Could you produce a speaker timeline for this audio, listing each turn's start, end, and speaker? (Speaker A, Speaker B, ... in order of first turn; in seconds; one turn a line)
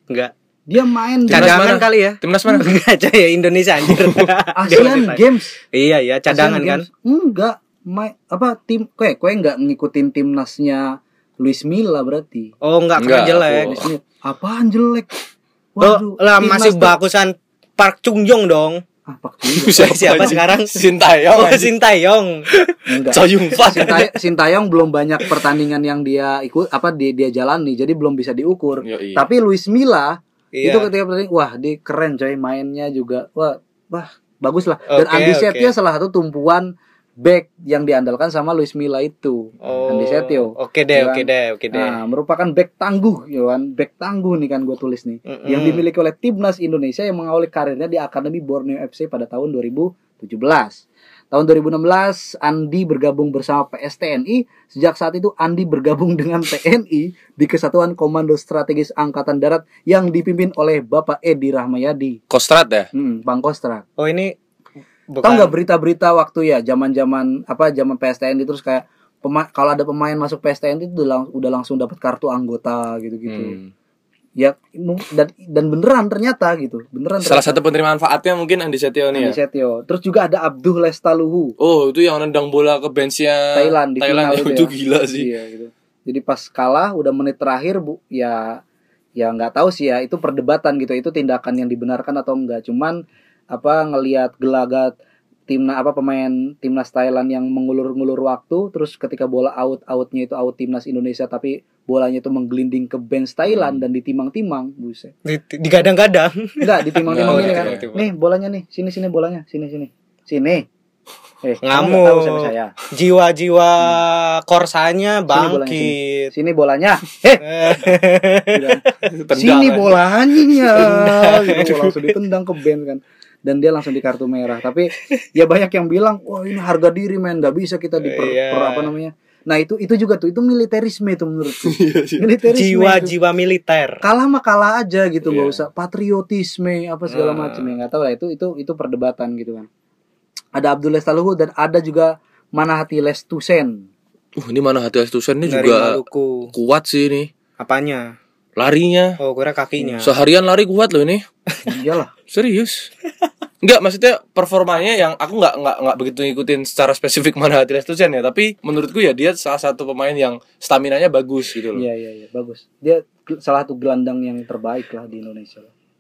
Speaker A: 0.7-1.6
Speaker B: 1.3-2.7
Speaker C: 1.3-6.9
Speaker B: 3.9-4.2
Speaker A: 4.6-5.6
Speaker A: 6.3-12.5
Speaker C: 12.6-13.8
Speaker B: 13.0-13.9
Speaker A: 13.7-15.1
Speaker A: 15.8-16.9
Speaker C: 15.8-18.8
Speaker A: 19.1-20.4
Speaker B: 19.6-21.7
Speaker C: 19.8-22.5
Speaker B: 22.5-24.1
Speaker A: 22.9-62.2
Speaker C: 23.6-23.9
Speaker B: 28.8-29.3
Speaker C: 30.5-30.9
Speaker C: 34.9-35.7
Speaker C: 39.6-42.0
Speaker C: 45.3-45.8
Speaker B: 62.3-62.9
Speaker A: 63.0-63.9
Speaker C: 64.0-64.3
Speaker C: 65.1-65.5
Speaker A: 65.2-73.6
Speaker B: 73.3-73.7
Speaker A: 74.4-77.6
Speaker B: 77.2-79.4
Speaker A: 79.2-81.5
Speaker B: 81.6-85.3
Speaker A: 83.5-88.6
Speaker A: 89.2-93.0
Speaker A: 93.5-95.0
Speaker A: 95.5-105.1
Speaker B: 103.5-103.8
Speaker C: 105.3-108.1
Speaker A: 106.6-110.7
Speaker B: 107.1-107.8
Speaker A: 111.4-112.7
Speaker C: 111.6-116.3
Speaker A: 115.3-117.8
Speaker C: 117.4-119.0
Speaker A: 118.5-118.8
Speaker B: 119.0-120.1
Speaker A: 119.3-133.2
Speaker C: 120.8-121.7
Speaker B: 121.5-122.0
Speaker C: 128.0-128.9
Speaker B: 131.6-132.3
Speaker C: 132.5-134.0
Speaker A: 134.0-139.7
Speaker B: 135.2-135.6
Speaker B: 137.4-137.7
Speaker A: 140.6-143.9
Speaker B: 144.4-146.0
Speaker C: 145.5-146.5
Speaker B: 146.5-147.3
Speaker C: 147.6-148.2
Speaker B: 148.6-149.2
Speaker C: 149.2-150.1
Speaker B: 150.0-151.2
Speaker A: 151.7-152.1
Speaker B: 152.3-152.9
Speaker B: 153.6-161.8
Speaker A: 161.8-165.7